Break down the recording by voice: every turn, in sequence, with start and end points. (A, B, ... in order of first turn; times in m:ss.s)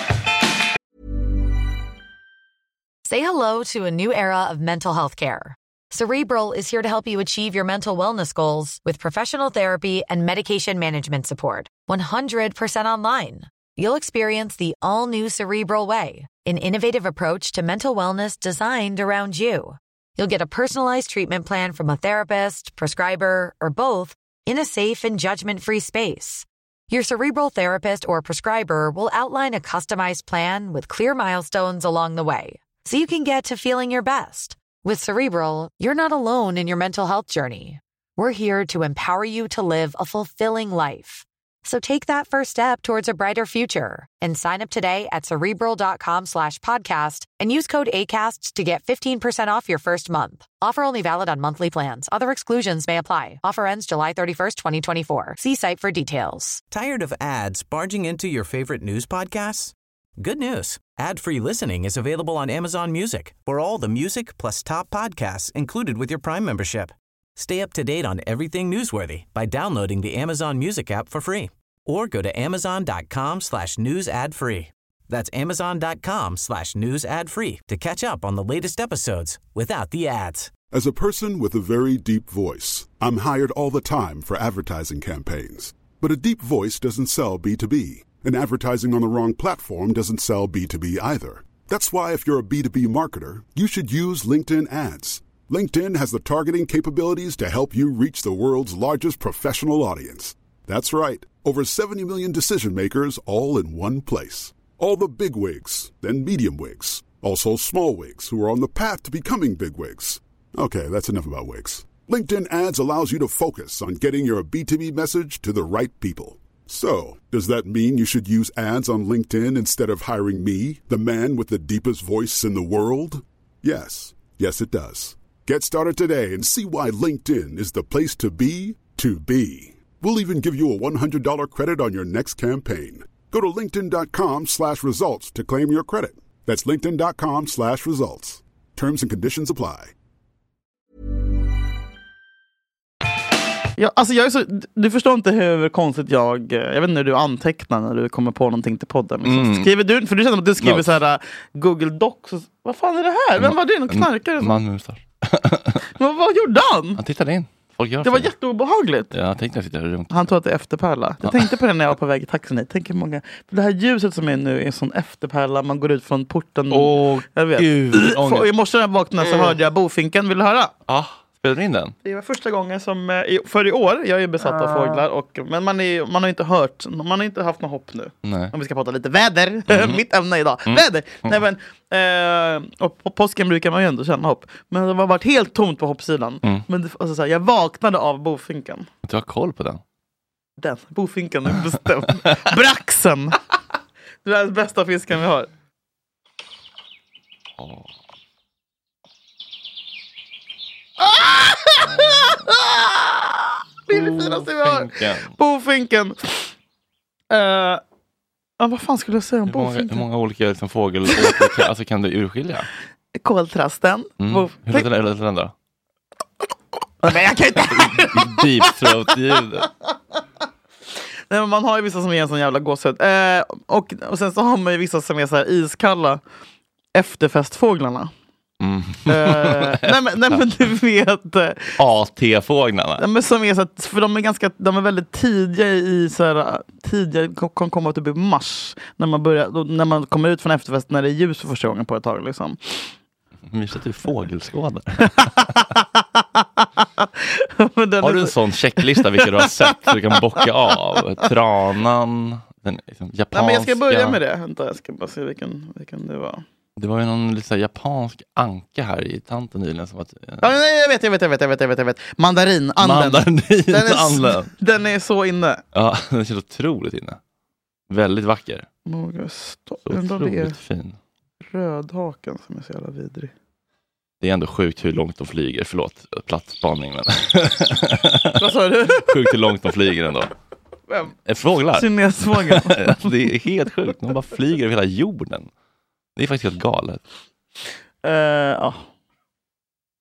0:03.0-0:56.6 A
0:56.7-1:20.5 B
1:20.7-2:19.9 C
2:23.8-2:34.6 D
2:29.2-2:29.7 E
2:30.6-2:30.9 E
2:33.4-2:35.8 E
2:36.0-2:37.0 D
2:37.0-2:38.3 E
2:38.0-2:39.1 D
2:39.1-2:40.3 E
2:40.1-2:50.7 D
2:46.7-2:48.5 E
2:50.9-2:52.0 E
2:52.0-3:08.9 D
2:58.2-2:58.5 E
2:59.7-3:00.0 E
3:00.7-3:01.4 E
3:09.0-3:09.8 E
3:10.6-3:13.4 D
3:14.2-3:15.5 D
3:17.6-3:17.9 E
3:21.0-3:26.5 D
3:21.9-3:22.3 E
3:23.9-3:25.3 E
3:27.3-3:27.8 D
3:28.6-3:30.1 D
3:29.5-3:32.7 E
3:31.1-3:31.5 D
3:33.2-3:34.9 D
3:34.2-3:35.5 E
3:37.0-3:38.7 D
3:37.7-3:39.7 E
3:41.3-3:46.2 D
3:46.9-3:48.1 D
3:48.6-3:50.4 E
3:49.1-3:51.8 D
3:51.8-3:53.0 E
3:53.0-4:02.9 D
4:03.5-4:05.8 E
4:06.4-4:10.5 D
4:08.0-4:14.2 E
4:13.3-4:16.4 D
4:16.8-4:20.5 E
4:20.4-4:25.6 D
4:22.8-4:24.5 E
4:25.7-4:27.2 E
4:27.9-4:28.7 E
4:28.9-4:30.6 D
4:29.9-4:31.0 E
4:31.5-4:33.3 D
4:34.2-4:38.4 E
4:38.4-4:39.4 D
4:39.0-4:40.3 E
4:41.3-4:45.5 E
4:41.7-4:43.3 D
4:46.2-4:47.0 E
4:48.0-4:48.8 D